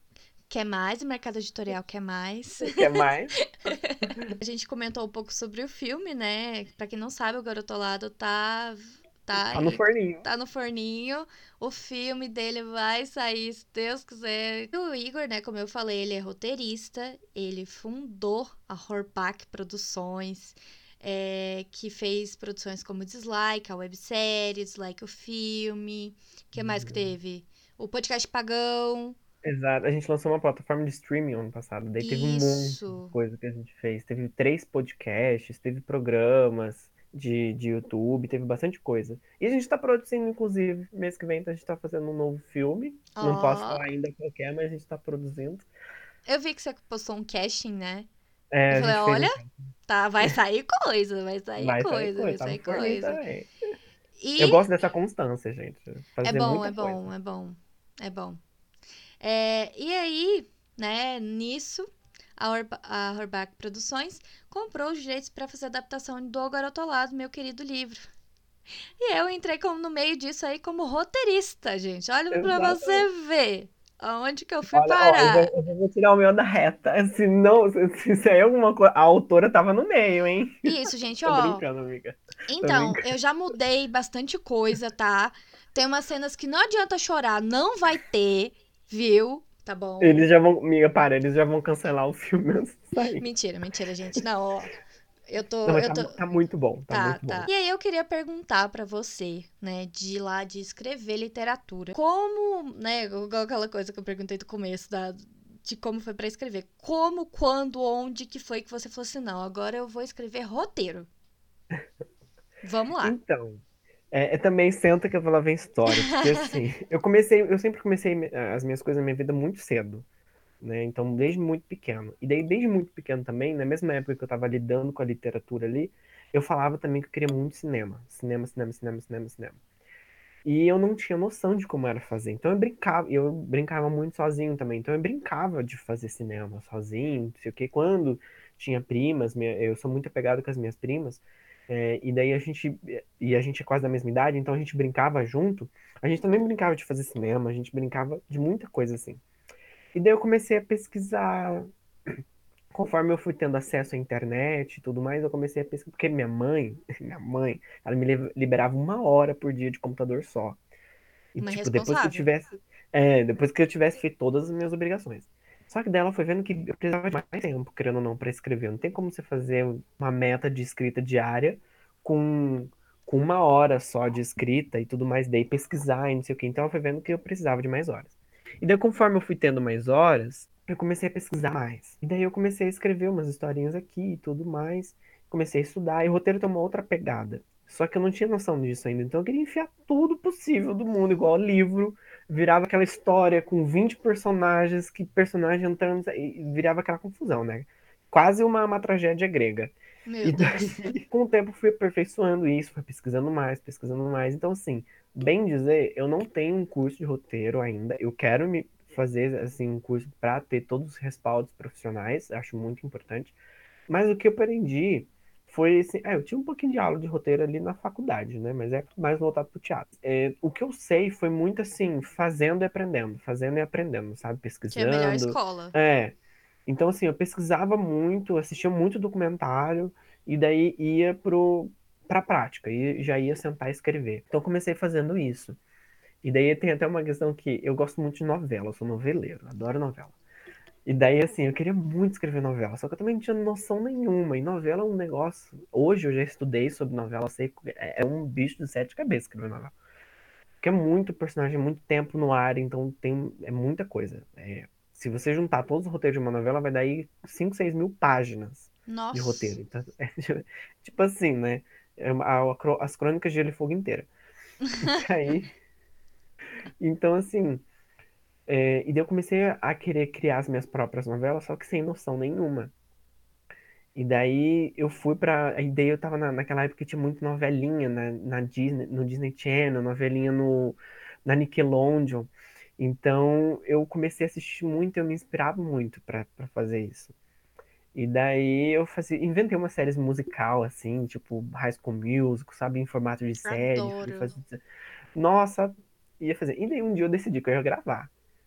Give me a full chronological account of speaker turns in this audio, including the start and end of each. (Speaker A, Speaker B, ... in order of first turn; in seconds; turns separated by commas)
Speaker A: 0.5-29.2, Speaker B: 2.6-3.4, Speaker B: 9.4-10.2, Speaker B: 26.6-27.1, Speaker B: 29.4-45.7, Speaker A: 32.0-33.1, Speaker A: 43.1-43.9, Speaker A: 46.3-48.1, Speaker B: 48.5-49.7, Speaker A: 48.7-53.2, Speaker B: 51.6-53.5, Speaker A: 54.2-54.6, Speaker B: 54.4-57.0, Speaker A: 56.2-58.4, Speaker A: 59.2-61.9, Speaker A: 62.4-68.1, Speaker A: 69.0-75.5, Speaker B: 72.3-73.1, Speaker B: 74.7-80.7, Speaker A: 80.6-81.6, Speaker B: 81.2-83.0, Speaker A: 82.5-90.2, Speaker B: 90.0-93.2, Speaker A: 93.2-94.8, Speaker A: 95.3-96.2, Speaker B: 95.7-97.5, Speaker A: 96.9-111.1, Speaker A: 112.6-113.2, Speaker B: 113.0-120.1, Speaker A: 115.9-116.6, Speaker B: 120.6-129.6, Speaker B: 130.4-149.2, Speaker B: 149.9-152.2, Speaker B: 152.7-160.6, Speaker B: 161.3-213.4, Speaker A: 161.4-162.3, Speaker A: 200.1-200.8, Speaker B: 213.9-235.6, Speaker A: 224.7-225.8, Speaker B: 236.2-240.1, Speaker B: 240.9-249.7, Speaker B: 250.6-264.1, Speaker A: 258.9-259.6, Speaker A: 264.6-265.0, Speaker B: 264.8-265.5, Speaker B: 266.8-267.6, Speaker B: 268.5-272.7, Speaker B: 273.9-287.1, Speaker B: 287.9-294.6, Speaker A: 293.4-294.4, Speaker B: 295.1-298.1